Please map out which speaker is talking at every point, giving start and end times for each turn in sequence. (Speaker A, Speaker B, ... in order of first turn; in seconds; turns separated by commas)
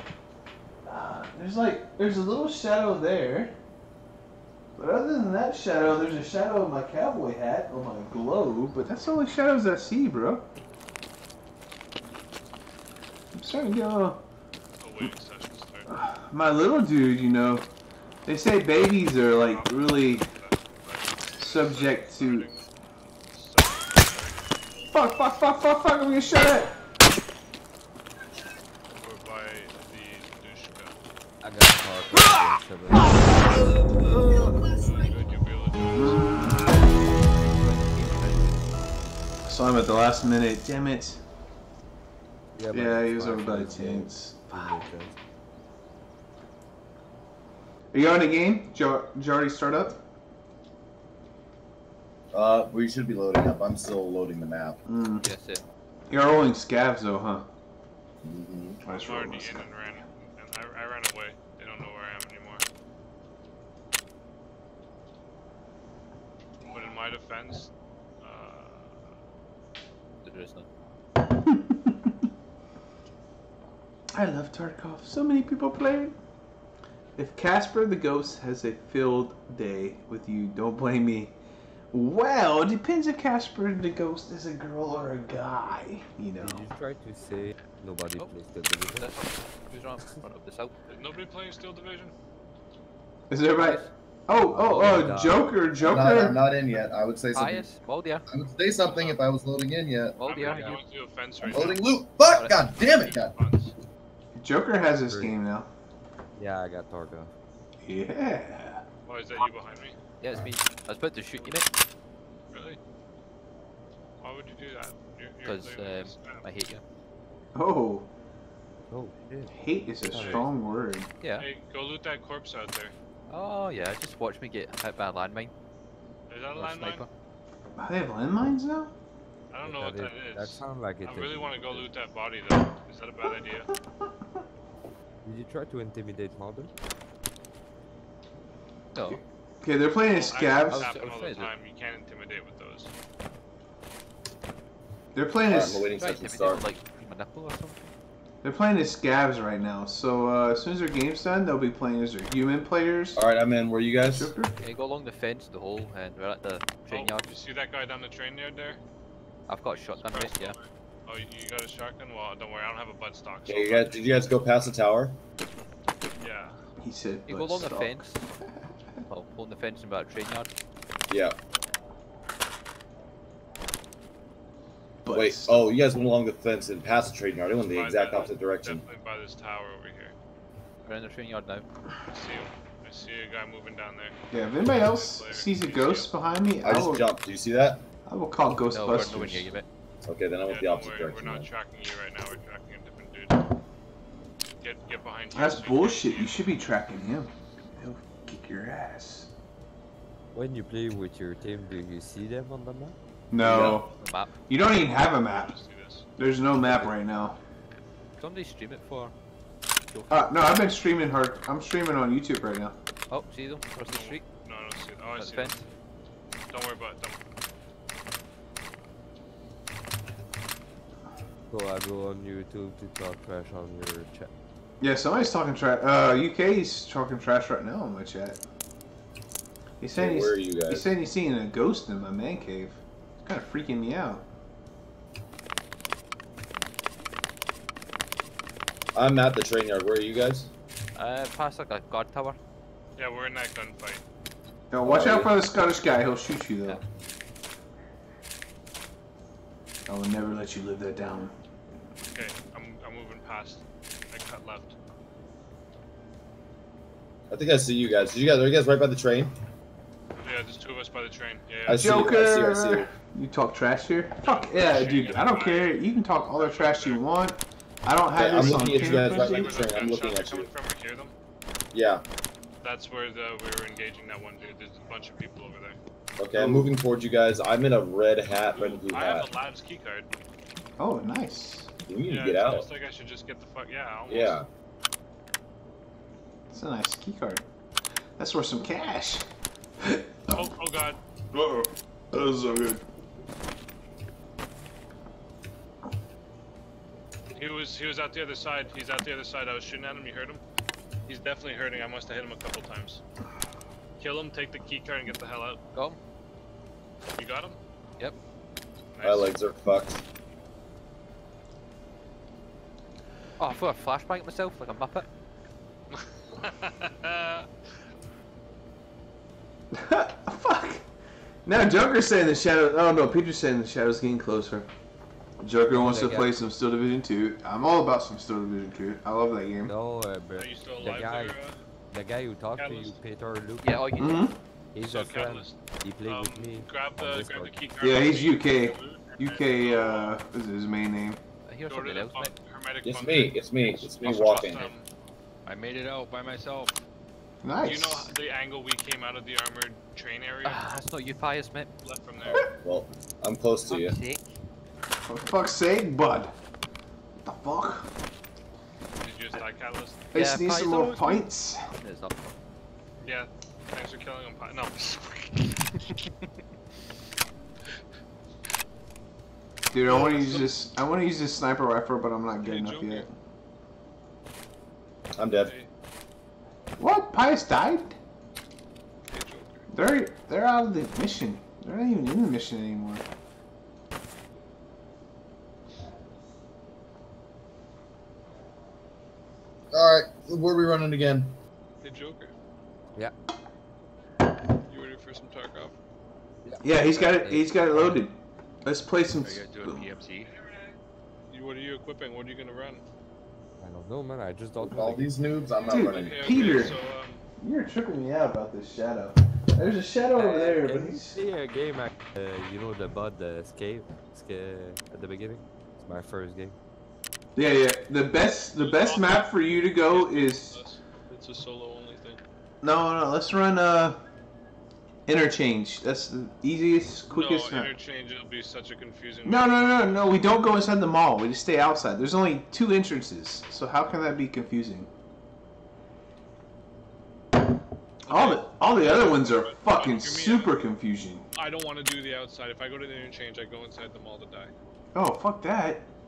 Speaker A: 0.8-3.5, Speaker A: 4.8-10.5, Speaker A: 13.3-14.2, Speaker B: 14.8-15.9, Speaker A: 16.0-17.7, Speaker A: 18.3-20.3, Speaker B: 19.2-22.7, Speaker A: 21.4-22.5, Speaker B: 23.3-24.4, Speaker A: 24.9-26.7, Speaker B: 29.0-31.0, Speaker C: 31.4-33.8, Speaker A: 34.2-34.5, Speaker B: 34.6-36.3, Speaker A: 36.0-36.6, Speaker D: 37.4-38.7, Speaker A: 39.5-41.2, Speaker C: 42.6-45.1, Speaker A: 42.7-44.9, Speaker A: 47.9-50.0, Speaker E: 52.3-54.8, Speaker A: 54.9-55.2, Speaker D: 55.2-55.6, Speaker A: 56.1-57.5, Speaker E: 58.2-58.8, Speaker A: 58.8-59.7, Speaker B: 58.8-62.6, Speaker B: 66.7-69.0, Speaker D: 70.2-70.7, Speaker A: 71.4-72.1, Speaker A: 74.1-76.2, Speaker A: 77.2-81.3, Speaker A: 81.9-86.7, Speaker C: 86.4-89.1, Speaker D: 88.9-90.7, Speaker B: 90.9-92.1, Speaker A: 93.3-96.4, Speaker D: 93.6-93.9, Speaker C: 94.4-95.6, Speaker E: 95.8-97.7, Speaker D: 97.3-98.2, Speaker E: 98.3-100.7, Speaker B: 98.8-99.2, Speaker D: 100.2-100.8, Speaker B: 100.2-101.8, Speaker E: 101.4-103.3, Speaker D: 101.5-102.7, Speaker B: 103.0-103.7, Speaker A: 104.4-105.7, Speaker C: 105.1-105.3, Speaker C: 106.4-107.3, Speaker A: 107.8-108.8, Speaker B: 109.1-110.0, Speaker D: 110.2-111.7, Speaker B: 112.5-112.8, Speaker B: 114.2-116.4, Speaker D: 115.5-116.8, Speaker A: 117.5-118.1, Speaker C: 118.9-119.6, Speaker A: 119.5-121.1, Speaker C: 120.1-120.5, Speaker B: 120.2-120.5, Speaker D: 121.2-121.5, Speaker B: 121.4-122.9, Speaker D: 123.3-125.5, Speaker B: 126.3-127.0, Speaker D: 126.6-127.1, Speaker A: 127.8-128.9, Speaker B: 129.5-133.7, Speaker C: 129.7-131.9, Speaker C: 135.2-136.7, Speaker D: 138.9-139.2, Speaker A: 139.6-140.9, Speaker B: 140.1-142.9, Speaker D: 140.6-141.5, Speaker A: 145.1-145.9, Speaker E: 145.5-146.7, Speaker D: 146.0-147.8, Speaker A: 148.4-153.2, Speaker E: 153.2-154.3, Speaker A: 154.2-154.5, Speaker D: 154.6-157.3, Speaker B: 156.9-158.8, Speaker D: 159.5-160.6, Speaker B: 159.9-164.3, Speaker E: 163.5-165.2, Speaker B: 166.2-166.6, Speaker A: 166.8-168.1, Speaker D: 167.3-168.3, Speaker D: 169.1-170.5, Speaker E: 171.1-171.4, Speaker A: 175.1-175.7, Speaker E: 175.1-178.8, Speaker B: 177.6-180.1, Speaker D: 180.8-181.7, Speaker B: 182.1-184.2, Speaker A: 184.3-187.1, Speaker B: 184.7-186.1, Speaker E: 186.6-187.8, Speaker A: 188.1-189.5, Speaker D: 188.7-189.7, Speaker E: 190.0-191.5, Speaker B: 190.5-193.4, Speaker B: 194.6-196.4, Speaker A: 195.3-199.3, Speaker C: 200.3-203.0, Speaker A: 203.3-203.9, Speaker E: 203.4-203.8, Speaker D: 203.7-204.3, Speaker A: 204.5-205.5, Speaker B: 205.3-206.1, Speaker A: 206.2-207.4, Speaker D: 208.2-209.1, Speaker D: 209.9-210.2, Speaker A: 210.1-212.8, Speaker D: 213.1-214.3, Speaker B: 213.9-215.6, Speaker D: 215.2-215.6, Speaker B: 216.5-217.2, Speaker C: 221.5-224.3, Speaker A: 224.8-228.4, Speaker A: 229.8-234.2, Speaker E: 229.9-230.9, Speaker E: 238.9-240.5, Speaker D: 240.9-242.4, Speaker B: 243.0-244.0, Speaker A: 244.7-246.8, Speaker E: 244.8-245.4, Speaker A: 249.9-251.3, Speaker B: 252.1-254.8, Speaker E: 257.3-259.4, Speaker B: 260.2-262.1, Speaker E: 261.7-262.9, Speaker A: 261.7-269.7, Speaker B: 264.2-267.1, Speaker E: 268.1-270.5, Speaker B: 268.4-271.1, Speaker E: 271.7-272.1, Speaker B: 272.6-275.8, Speaker E: 276.2-279.3, Speaker A: 276.4-276.7, Speaker B: 278.4-280.1, Speaker A: 280.8-281.7, Speaker E: 281.9-282.7, Speaker B: 282.1-284.4, Speaker E: 284.1-284.5, Speaker A: 286.5-287.4, Speaker A: 288.2-289.2, Speaker A: 289.8-290.5, Speaker B: 290.3-291.0, Speaker A: 291.3-292.8, Speaker B: 297.4-300.4, Speaker B: 301.1-303.0, Speaker B: 304.0-305.6, Speaker B: 307.1-307.6, Speaker B: 308.9-309.4, Speaker E: 309.0-310.0, Speaker D: 313.4-315.1, Speaker B: 316.3-317.5, Speaker A: 319.7-320.9, Speaker A: 321.4-324.7, Speaker A: 325.4-329.7, Speaker C: 325.7-326.3, Speaker C: 329.7-333.9, Speaker B: 330.4-331.6, Speaker B: 332.6-333.0, Speaker D: 333.6-334.3, Speaker A: 334.0-334.4, Speaker C: 334.8-337.6, Speaker B: 334.9-340.2, Speaker A: 337.8-341.2, Speaker D: 341.5-342.4, Speaker B: 341.7-344.9, Speaker E: 342.8-344.7, Speaker F: 345.4-346.8, Speaker A: 347.4-348.1, Speaker B: 347.6-350.6, Speaker D: 350.4-351.7, Speaker B: 351.8-352.4, Speaker E: 352.2-354.0, Speaker D: 353.7-354.3, Speaker A: 355.1-356.3, Speaker A: 357.2-357.9, Speaker B: 359.0-360.0, Speaker D: 360.1-361.3, Speaker A: 360.1-361.6, Speaker D: 361.8-362.4, Speaker B: 363.0-365.7, Speaker A: 369.7-373.1, Speaker B: 369.9-370.6, Speaker B: 372.4-373.1, Speaker E: 375.2-375.5, Speaker B: 375.4-375.7, Speaker A: 376.8-378.0, Speaker B: 379.1-379.6, Speaker A: 379.7-383.1, Speaker E: 389.7-391.4, Speaker B: 391.8-392.3, Speaker B: 394.7-395.8, Speaker C: 396.4-398.1, Speaker A: 396.6-399.9, Speaker F: 399.2-400.3, Speaker B: 401.3-402.8, Speaker C: 403.6-405.3, Speaker E: 404.6-406.7, Speaker B: 405.5-407.2, Speaker A: 405.6-406.8, Speaker A: 407.4-411.2, Speaker C: 410.1-416.6, Speaker A: 417.4-420.6, Speaker B: 418.6-422.2, Speaker A: 422.6-424.0, Speaker A: 425.1-427.8, Speaker B: 427.1-430.2, Speaker A: 429.2-434.9, Speaker B: 438.1-440.5, Speaker A: 438.1-441.2, Speaker B: 441.3-444.5, Speaker A: 444.9-445.9